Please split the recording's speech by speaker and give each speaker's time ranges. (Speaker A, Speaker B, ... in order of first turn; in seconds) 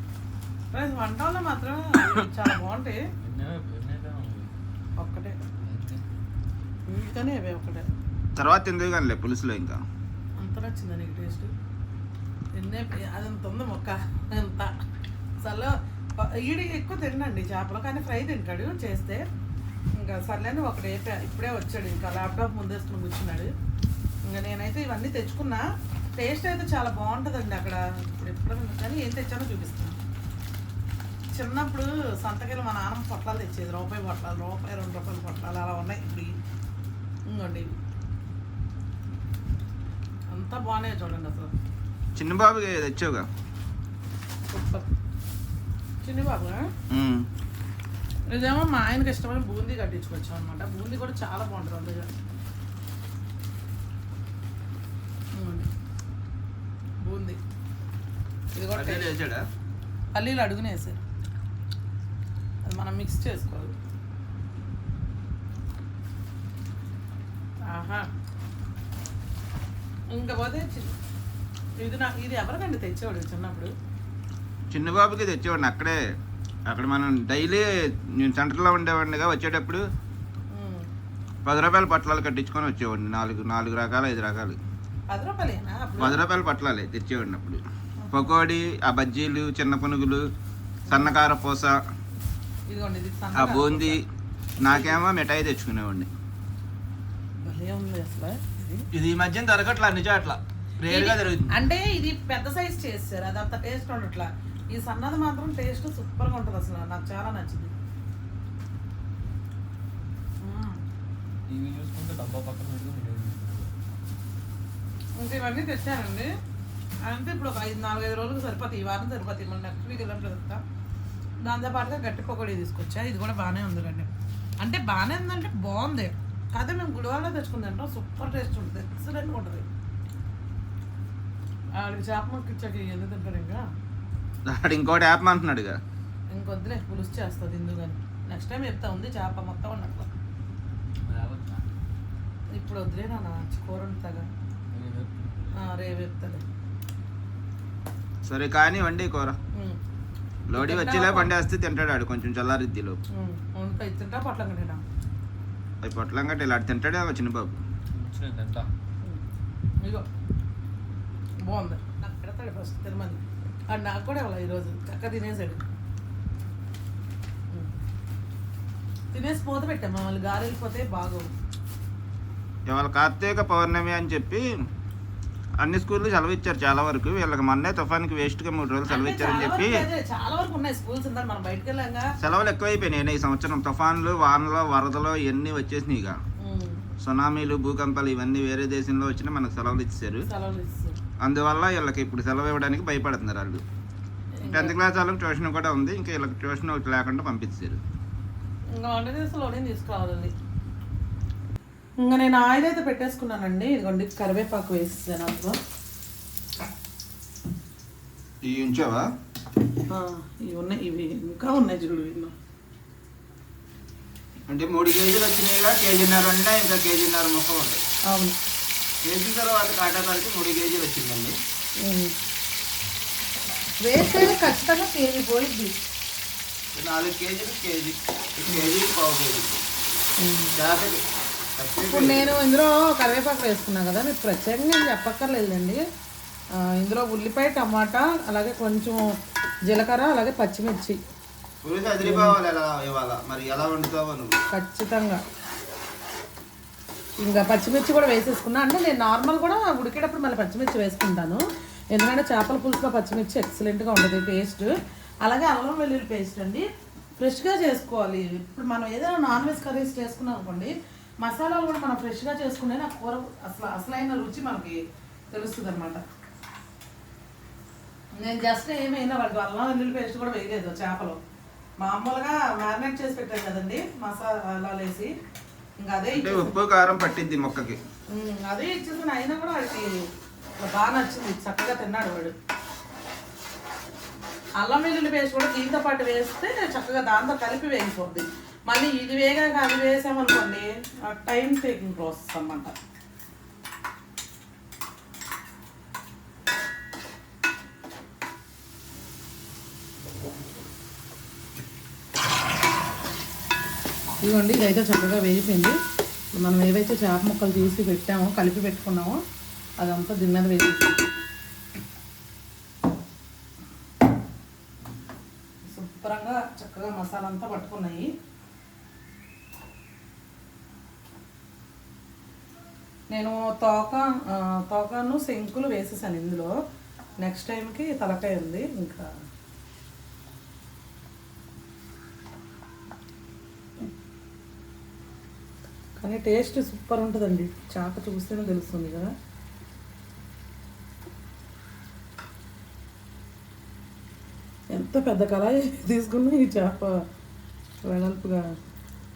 Speaker A: 0.7-3.0, 5.0-5.4, 6.9-7.9, 10.4-11.5, 12.5-14.7, 15.4-19.2, 19.9-23.5, 24.2-30.0, 31.3-36.4, 37.3-37.8, 40.3-41.5, 44.5-44.9, 46.0-46.7, 48.3-52.1, 55.3-55.7, 57.0-57.4, 58.5-59.1, 60.1-61.0, 62.6-63.7, 67.7-68.1, 70.1-70.9, 71.8-73.7, 80.5-80.9, 85.1-86.2, 90.9-91.1, 92.7-94.0, 94.6-95.0, 97.4-98.8, 100.9-107.7, 110.4-110.8, 115.2-116.3, 117.0-120.6, 121.4-124.1, 124.6-129.7, 131.8-133.6, 136.3-140.1, 142.5-144.3, 145.6-146.4, 150.5-151.3, 153.1-154.8, 159.8-160.1, 161.4-165.7, 169.1-171.3, 178.9-182.1, 186.4-186.9, 190.2-191.0, 194.3-194.8, 198.7-200.3, 202.0-205.6, 209.9-212.3, 218.1-218.4, 221.8-222.1, 223.8-225.8, 230.2-230.5, 231.9-235.8, 236.5-241.0, 242.0-242.4, 244.5-245.2, 247.2-254.7, 255.2-256.7, 257.2-264.8, 265.3-266.0, 268.2-271.2, 271.8-275.1, 275.8-276.6, 278.1-280.0, 280.6-282.3, 284.6-292.7, 304.2-305.8, 306.3-309.2, 309.8-311.0, 315.6-318.1, 323.1-326.5, 327.2-329.1, 336.0-339.1, 344.7-347.0, 347.9-348.5
Speaker B: 3.2-4.5, 5.6-6.0, 111.5-113.7, 141.0-141.6, 144.7-145.6, 157.9-158.7
Speaker C: 8.3-9.8, 42.1-43.3, 46.9-47.3, 58.7-59.4, 74.7-76.0, 76.7-79.9, 81.4-84.6, 86.0-90.3, 90.9-91.8, 93.3-94.0, 94.6-96.1, 98.9-101.6, 134.4-135.8, 148.2-149.4, 150.5-153.0, 155.8-157.6, 172.7-174.5, 175.6-179.8, 182.2-186.2, 187.0-190.2, 191.2-193.6, 194.4-197.8, 208.4-209.1, 214.5-217.8, 219.0-221.4, 226.7-229.6, 230.5-231.0, 231.6-232.3, 241.6-244.4, 276.1-277.8